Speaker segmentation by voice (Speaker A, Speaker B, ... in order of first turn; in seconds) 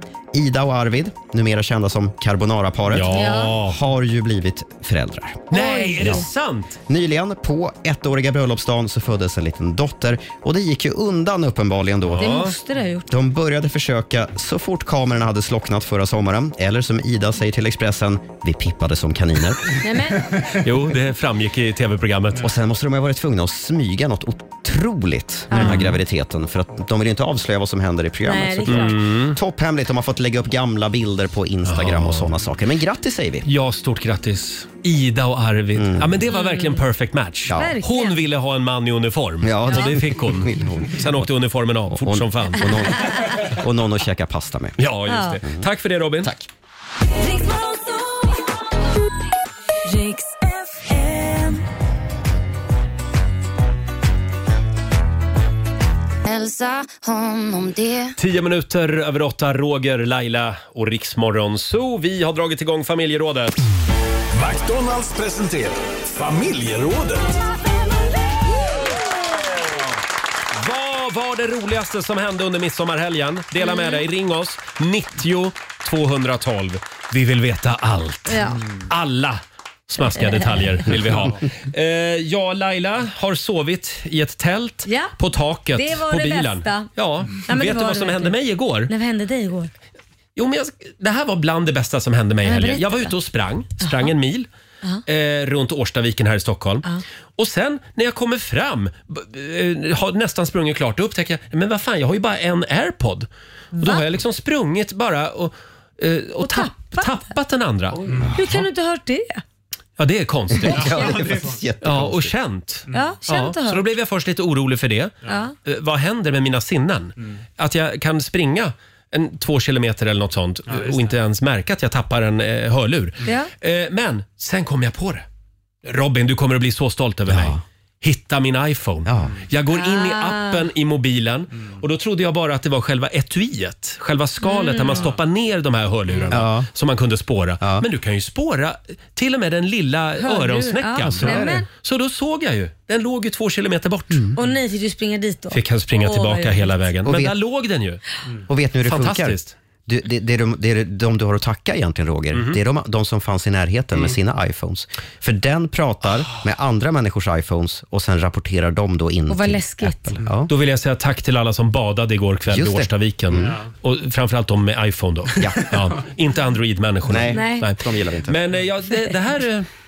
Speaker A: 0.3-6.2, 6.9-12.5, 13.1-19.8, 22.4-33.5, 35.8-36.2, 37.5-37.7, 39.4-41.3, 41.9-44.8, 110.5-112.3, 127.3-127.6, 129.1-129.4, 136.3-136.7, 137.6-137.9, 141.2-141.6, 147.1-147.3, 148.5-160.5, 162.5-163.6, 167.1-168.4
Speaker B: 2.9-3.8, 5.5-6.8, 12.1-12.5, 20.5-22.5, 25.5-26.0, 28.7-29.4, 31.7-32.3, 33.5-42.8, 44.8-46.3, 58.2-63.6, 70.6-88.9, 90.4-94.5, 95.1-96.9, 97.4-108.3, 110.0-111.0, 111.8-125.2, 125.8-144.3, 145.5-148.0, 148.8-149.6, 152.3-152.6, 160.5-169.7
Speaker C: 3.1-3.5, 5.5-6.2, 12.2-13.1, 19.8-20.4, 25.5-25.8, 28.3-29.0, 36.3-36.8, 37.5-38.2, 45.1-45.4, 73.6-74.0, 78.3-78.6, 80.1-80.5, 84.9-85.1, 85.7-86.9, 87.4-89.7, 92.4-93.1, 93.8-94.1, 103.8-104.0, 106.4-107.1, 108.3-109.4, 110.8-111.1, 112.9-113.8, 115.3-115.5, 123.2-123.5, 129.7-130.6, 134.4-135.1, 140.2-141.7, 144.3-146.9, 159.3-160.2, 167.3-167.7
Speaker D: 47.2-48.4, 49.9-51.6, 56.3-58.1
Speaker E: 64.3-67.4